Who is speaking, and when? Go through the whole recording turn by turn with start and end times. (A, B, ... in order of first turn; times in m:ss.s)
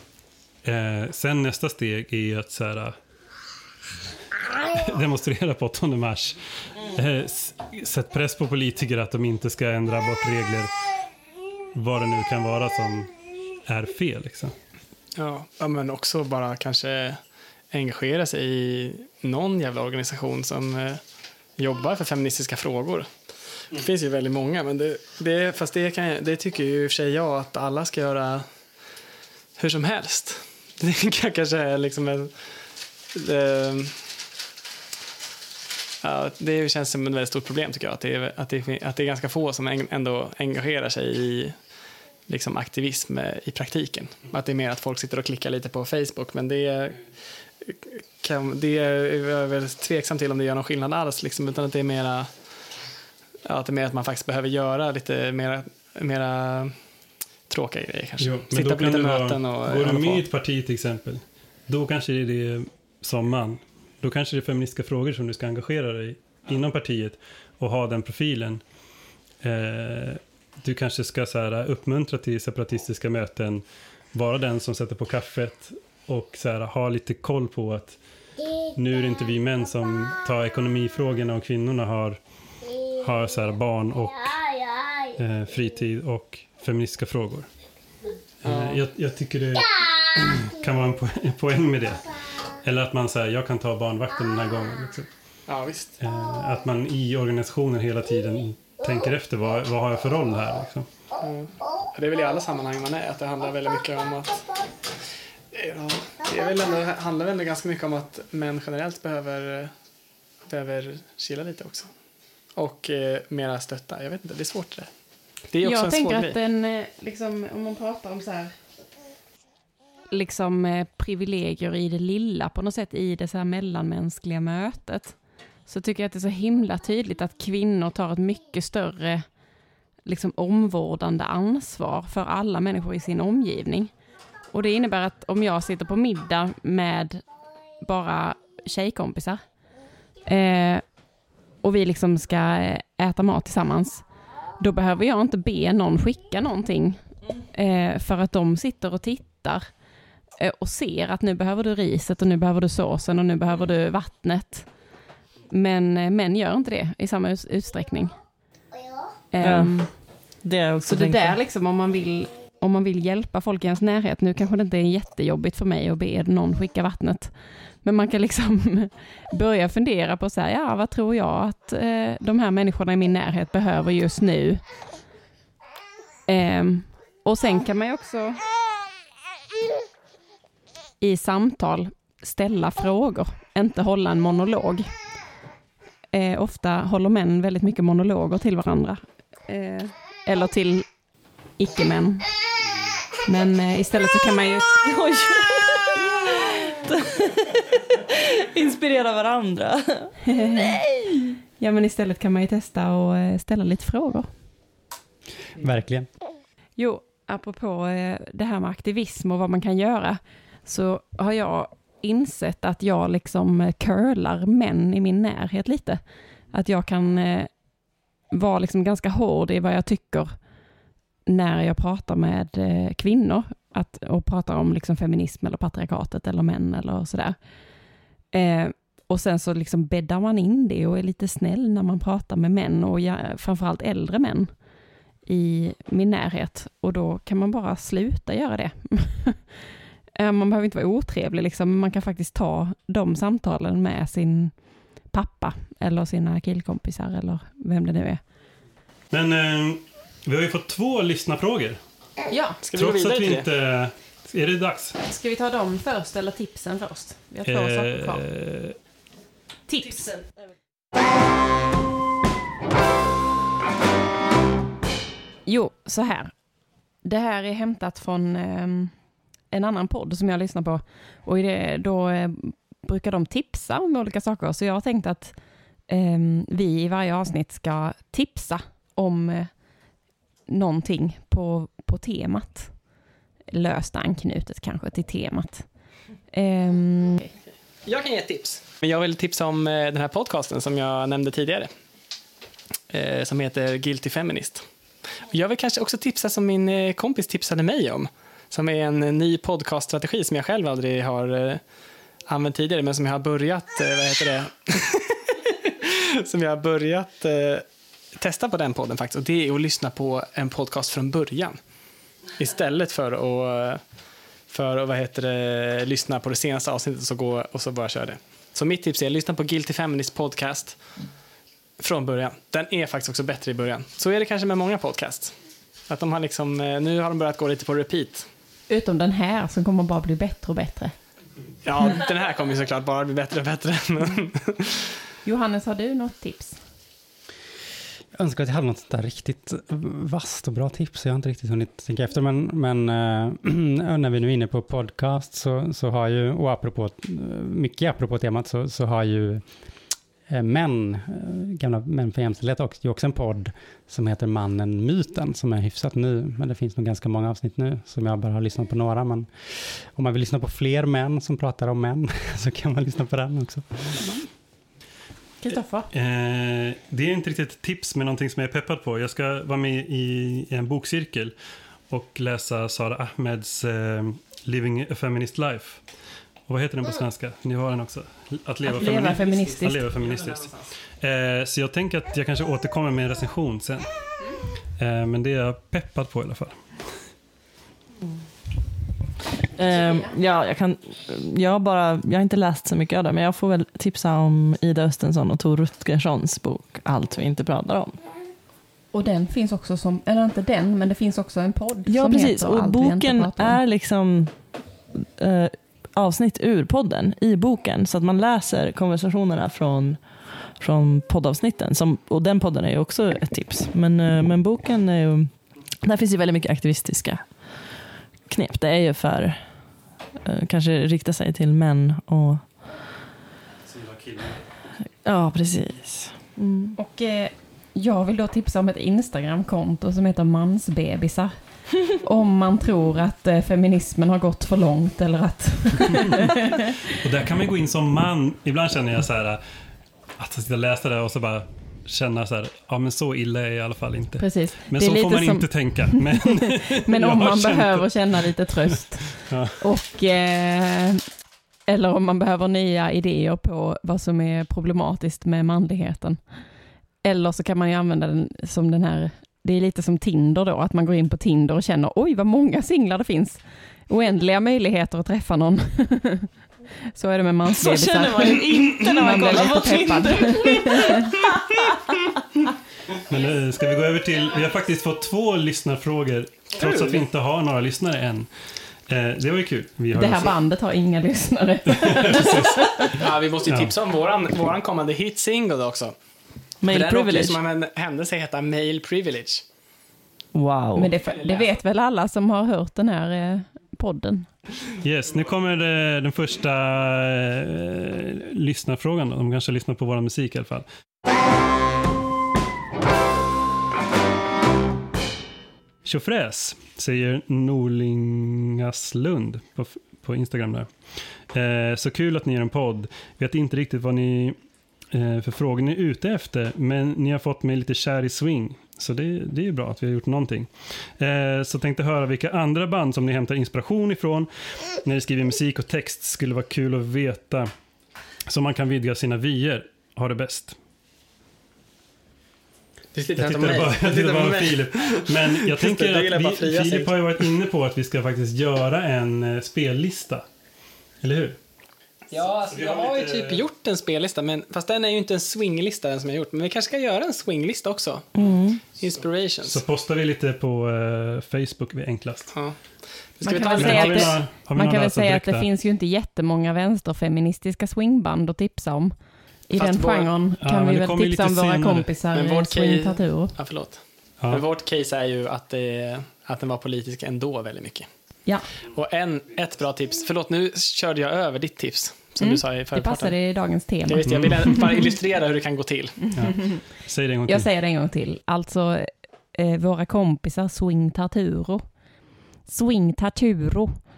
0:00.6-0:02.9 A
0:04.7-0:10.7 A
0:11.7-0:13.1 A
0:13.7-0:14.5 A
0:15.2-0:17.2 B
0:17.7-0:21.0 B
0:21.6-0:23.1 B
0:23.7-0:28.4 B
0:29.6-0:32.5 B
0:33.1-0:34.0 B
0:36.0-0:41.6 B
0:42.3-0:47.1 B
0:47.6-0:52.3 B
0:53.4-0:56.7 B
0:57.5-1:00.2 B
0:58.2-1:08.6 A
1:09.4-1:18.0 A
1:18.7-1:22.2 A
1:23.0-1:24.5 A
1:25.1-1:27.5 A
1:28.4-1:32.1 A
1:28.4-1:28.8 B
1:32.6-1:35.1 A
1:35.5-1:35.9 B
1:36.0-1:40.8 A
1:41.2-1:44.5 B
1:45.5-1:49.7 B
1:50.5-1:51.9 B
1:52.6-1:54.9 B
1:55.5-1:56.3 B
1:55.6-1:58.6 C
2:00.1-2:09.2 C
2:10.0-2:13.9 C
2:14.5-2:17.2 C
2:17.8-2:19.4 C
2:20.2-2:20.8 C
2:21.6-2:24.0 C
2:24.6-2:29.7 C
2:30.4-2:34.7 C
2:35.5-2:38.1 C
2:39.3-2:40.0 C
2:39.4-2:41.4 D
2:40.8-2:54.6 C
2:56.3-2:58.4 C
3:01.0-3:04.9 C
3:06.1-3:10.9 C
3:11.6-3:12.3 C
3:13.2-3:14.9 C
3:14.8-3:21.4 D
3:20.3-3:20.7 C
3:21.6-3:24.3 C
3:25.6-3:26.1 E
3:26.8-3:36.0 C
3:36.5-3:37.5 C
3:38.3-3:40.4 C
3:41.2-3:47.4 C
3:48.3-3:54.5 C
3:55.2-3:59.6 C
4:00.1-4:04.6 C
4:05.1-4:08.2 C
4:09.1-4:11.8 A
4:12.3-4:12.6 C
4:12.6-4:13.5 B
4:12.7-4:15.0 A
4:15.0-4:18.2 C
4:17.5-4:18.8 A
4:19.7-4:20.2 C
4:25.4-4:26.3 C
4:27.0-4:28.9 C
4:29.5-4:35.4 C
4:35.9-4:39.5 C
4:40.5-4:42.7 C
4:43.5-4:45.7 C
4:46.3-4:47.3 C
4:47.8-4:51.7 B
4:52.9-4:54.6 B
4:55.3-5:01.6 B
5:02.3-5:07.6 B
5:08.2-5:11.6 B
5:12.4-5:13.8 B
5:14.5-5:20.8 B
5:21.8-5:25.3 B
5:25.9-5:28.2 B
5:28.7-5:30.9 C
5:31.6-5:34.8 B
5:35.2-5:36.6 C
5:38.1-5:49.4 E
5:50.3-6:04.1 E
6:05.4-6:05.9 C
6:05.9-6:11.3 A
6:11.9-6:15.8 A
6:16.5-6:23.9 A
6:18.6-6:19.9 C
6:20.0-6:20.7 B
6:24.8-6:27.1 A
6:29.5-6:38.0 D
6:38.9-6:43.6 C
6:41.8-6:57.8 D
6:58.3-7:02.6 D
7:03.7-7:04.5 A
7:05.0-7:06.8 D
7:06.8-7:11.3 C
7:11.8-7:16.7 C
7:16.9-7:19.4 A
7:20.2-7:29.6 A
7:24.2-7:31.0 C
7:31.7-7:36.2 C
7:37.0-7:46.3 C
7:46.9-7:51.0 C
7:47.6-7:51.7 D
7:49.0-7:49.6 B
7:53.1-7:58.3 A
7:56.6-7:57.0 B
7:58.9-8:00.4 A
7:59.9-8:03.0 C
8:01.9-8:03.7 A
8:03.0-8:05.9 B
8:06.6-8:07.4 D
8:06.7-8:09.4 B
8:10.3-8:10.9 D
8:10.7-8:14.3 C
8:11.0-8:11.5 B
8:14.8-8:20.6 A
8:25.8-8:30.7 A
8:31.3-8:34.4 A
8:34.9-8:47.5 A
8:48.3-8:50.6 A
8:52.9-8:57.2 B
8:53.2-9:00.2 A
9:01.0-9:01.4 A
9:02.1-9:09.6 B
9:02.5-9:03.4 A
9:08.1-9:08.6 D
9:09.4-9:12.3 A
9:13.2-9:14.2 B
9:13.2-9:18.9 C
9:13.6-9:15.4 A
9:19.5-9:23.3 C
9:19.6-9:20.1 B
9:20.4-9:21.9 A
9:22.1-9:27.9 B
9:28.7-9:33.1 B
9:32.2-9:34.6 C
9:33.8-9:36.1 B
9:34.0-9:34.7 A
9:36.0-9:36.6 C
9:36.1-9:37.5 A
9:37.3-9:41.6 C
9:42.4-9:43.8 C